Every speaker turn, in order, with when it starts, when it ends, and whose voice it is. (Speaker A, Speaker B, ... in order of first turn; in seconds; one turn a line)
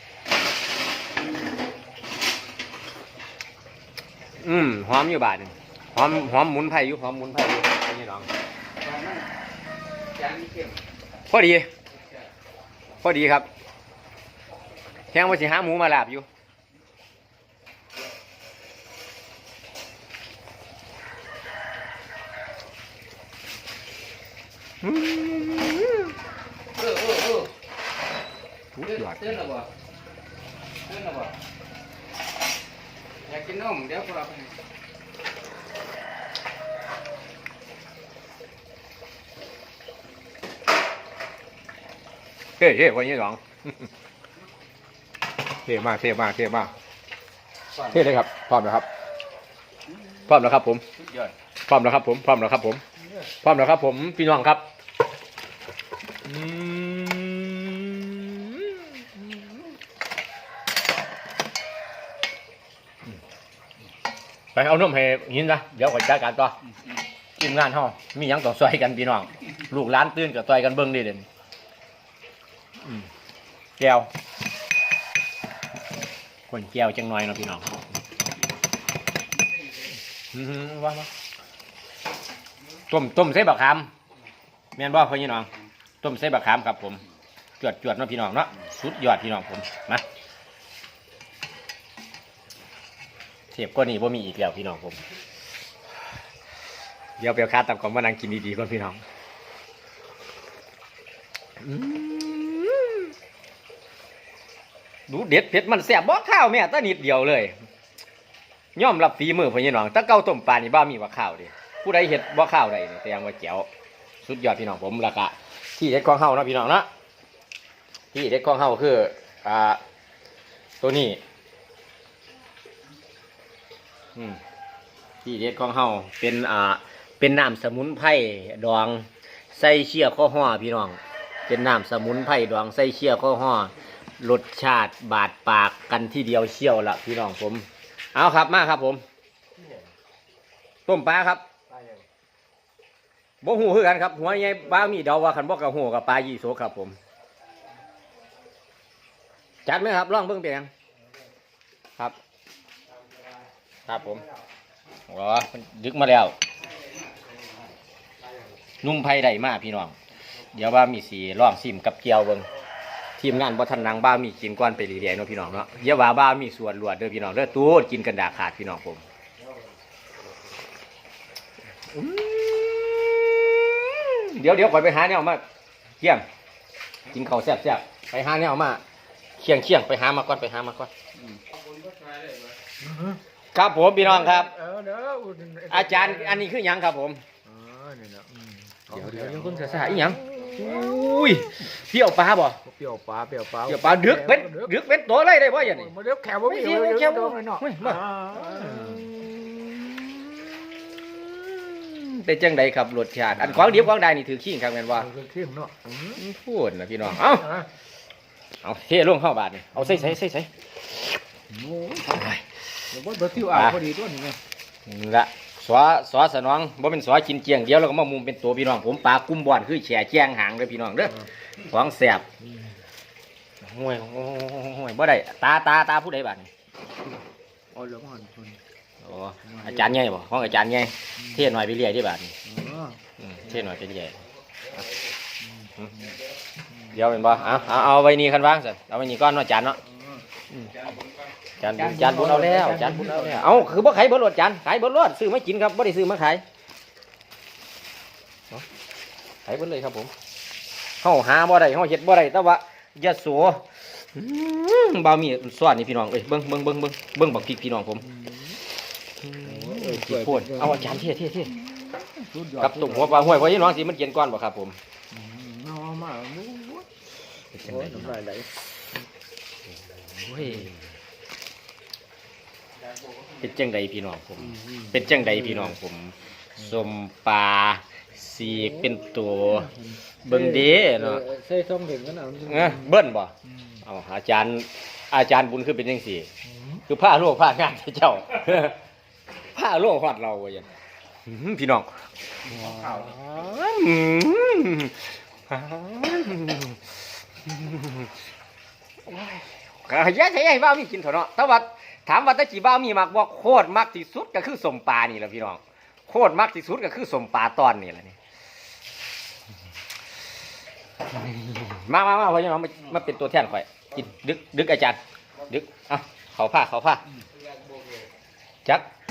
Speaker A: 4.4-8.3
Speaker B: 8.8-9.3
Speaker B: 10.1-10.8
Speaker A: 11.3-11.7
Speaker A: 13.0-13.5
Speaker A: 15.1-16.3
Speaker A: 24.8-26.1
Speaker B: 26.7-27.5
Speaker A: 28.8-29.4
Speaker B: 28.8-29.7
Speaker B: 30.8-31.4
Speaker B: 33.2-34.6
Speaker A: 42.6-43.9
Speaker A: 45.5-46.7
Speaker B: 47.8-48.0
Speaker A: 47.9-48.9
Speaker A: 50.2-50.8
Speaker B: 51.0-51.3
Speaker A: 51.6-52.8
Speaker A: 53.4-54.6
Speaker A: 56.2-59.3
Speaker A: 64.5-66.5
Speaker A: 67.4-71.2
Speaker A: 73.8-74.1
Speaker A: 76.5-77.8
Speaker A: 80.3-81.1
Speaker A: 82.9-83.9
Speaker A: 84.8-85.5
Speaker A: 86.0-87.0
Speaker A: 87.6-90.0
Speaker A: 93.5-95.0
Speaker A: 97.2-99.0
Speaker A: 101.6-103.1
Speaker A: 105.1-107.5
Speaker A: 108.7-113.7
Speaker A: 114.2-116.9
Speaker A: 118.1-119.8
Speaker A: 120.8-121.2
Speaker A: 125.2-139.0
Speaker A: 140.8-141.4
Speaker A: 143.4-146.9
Speaker A: 149.6-150.7
Speaker A: 153.8-154.2
Speaker A: 155.1-156.3
Speaker B: 156.8-157.5
Speaker A: 158.8-159.9
Speaker A: 160.5-162.5
Speaker A: 163.2-169.0
Speaker A: 171.9-175.4
Speaker A: 177.1-178.8
Speaker A: 179.4-180.9
Speaker B: 181.1-182.6
Speaker C: 182.8-183.2
Speaker A: 183.5-184.5
Speaker C: 184.0-186.4
Speaker A: 185.7-187.2
Speaker C: 187.4-191.4
Speaker A: 188.9-192.6
Speaker C: 192.6-194.7
Speaker A: 193.7-195.9
Speaker C: 195.5-199.1
Speaker A: 196.4-205.1
Speaker C: 203.4-203.8
Speaker C: 205.0-206.2
Speaker A: 206.2-207.5
Speaker C: 207.1-207.7
Speaker A: 208.6-210.5
Speaker C: 211.5-212.2
Speaker A: 212.1-212.4
Speaker C: 212.9-214.4
Speaker A: 213.4-213.8
Speaker A: 214.8-222.3
Speaker A: 223.6-226.5
Speaker C: 227.7-228.6
Speaker A: 229.0-232.3
Speaker C: 229.4-230.0
Speaker C: 231.2-231.5
Speaker C: 232.4-233.5
Speaker A: 233.2-234.2
Speaker C: 235.4-236.1
Speaker C: 236.7-237.7
Speaker A: 236.9-239.8
Speaker C: 239.8-240.2
Speaker A: 241.6-246.4
Speaker C: 241.6-243.8
Speaker A: 249.4-250.1
Speaker A: 251.0-258.0
Speaker C: 258.0-258.5
Speaker A: 259.2-261.6
Speaker C: 259.4-263.8
Speaker A: 262.6-264.8
Speaker C: 265.1-266.9
Speaker C: 267.5-268.5
Speaker A: 267.6-268.2
Speaker A: 270.2-270.7
Speaker C: 270.3-270.7
Speaker A: 273.4-279.7
Speaker C: 274.5-275.7
Speaker C: 278.4-282.9
Speaker A: 280.2-281.2
Speaker A: 282.4-283.3
Speaker C: 283.5-283.8
Speaker A: 283.8-286.3
Speaker C: 286.4-286.8
Speaker A: 286.9-288.8
Speaker A: 289.5-290.7
Speaker A: 291.2-291.9
Speaker C: 292.5-293.0
Speaker A: 292.6-298.1
Speaker A: 299.0-308.2
Speaker A: 311.1-317.0
Speaker B: 317.5-318.0